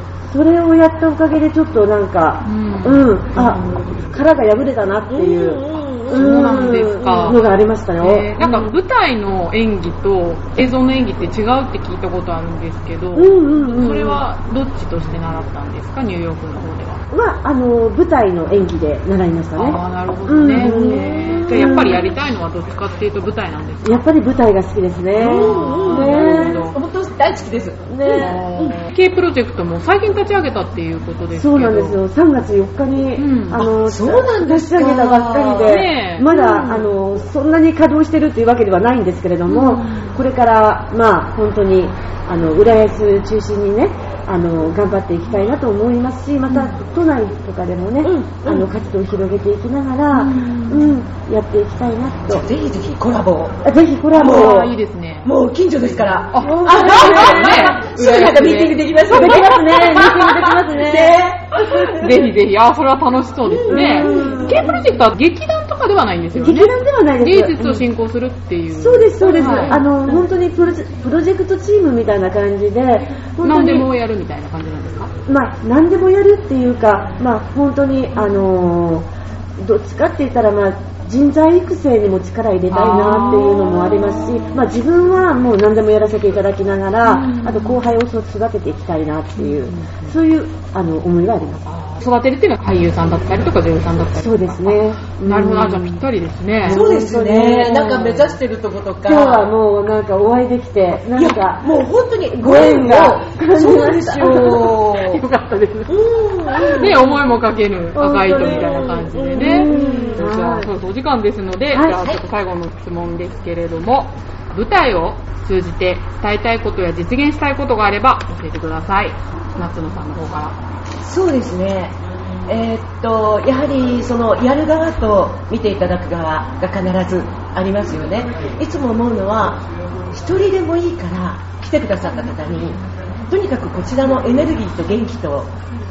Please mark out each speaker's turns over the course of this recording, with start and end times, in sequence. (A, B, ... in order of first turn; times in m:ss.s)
0:00.3-0:08.4 A
0:02.4-0:03.7 B
0:05.1-0:06.8 C
0:06.1-0:17.0 B
0:08.4-0:08.7 C
0:13.1-0:14.2 A
0:17.1-0:22.0 A
0:19.6-0:24.1 B
0:20.5-0:21.8 C
0:23.8-0:26.6 A
0:25.2-0:28.8 C
0:25.3-0:26.8 B
0:27.9-0:28.4 A
0:28.1-0:32.0 B
0:31.3-0:52.5 A
0:33.2-0:33.7 B
0:33.7-0:36.9 C
0:35.6-0:36.3 B
0:39.5-0:40.1 B
0:48.0-0:48.7 C
0:50.1-0:50.9 B
0:52.2-0:53.6 C
0:53.6-0:54.7 A
0:54.1-0:54.7 C
0:54.1-0:55.3 B
0:55.2-1:02.2 C
0:56.3-0:59.4 B
0:56.4-0:57.8 A
0:59.0-1:01.2 A
1:01.8-1:09.8 B
1:03.4-1:04.8 C
1:03.6-1:04.8 A
1:06.4-1:07.8 A
1:08.7-1:13.9 A
1:09.3-1:09.8 C
1:13.4-1:15.1 B
1:15.3-1:31.7 A
1:22.7-1:24.4 B
1:27.0-1:27.8 B
1:29.4-1:30.1 B
1:31.7-1:36.8 B
1:34.2-1:36.0 A
1:36.6-1:39.5 C
1:36.6-1:38.3 A
1:39.0-1:41.7 A
1:41.1-1:45.2 C
1:42.3-1:44.7 A
1:44.5-1:46.0 B
1:45.9-1:47.0 C
1:46.5-1:47.1 A
1:46.6-2:00.6 B
1:47.9-1:50.7 A
1:48.2-1:50.2 C
1:51.7-1:52.0 A
2:01.0-2:15.5 C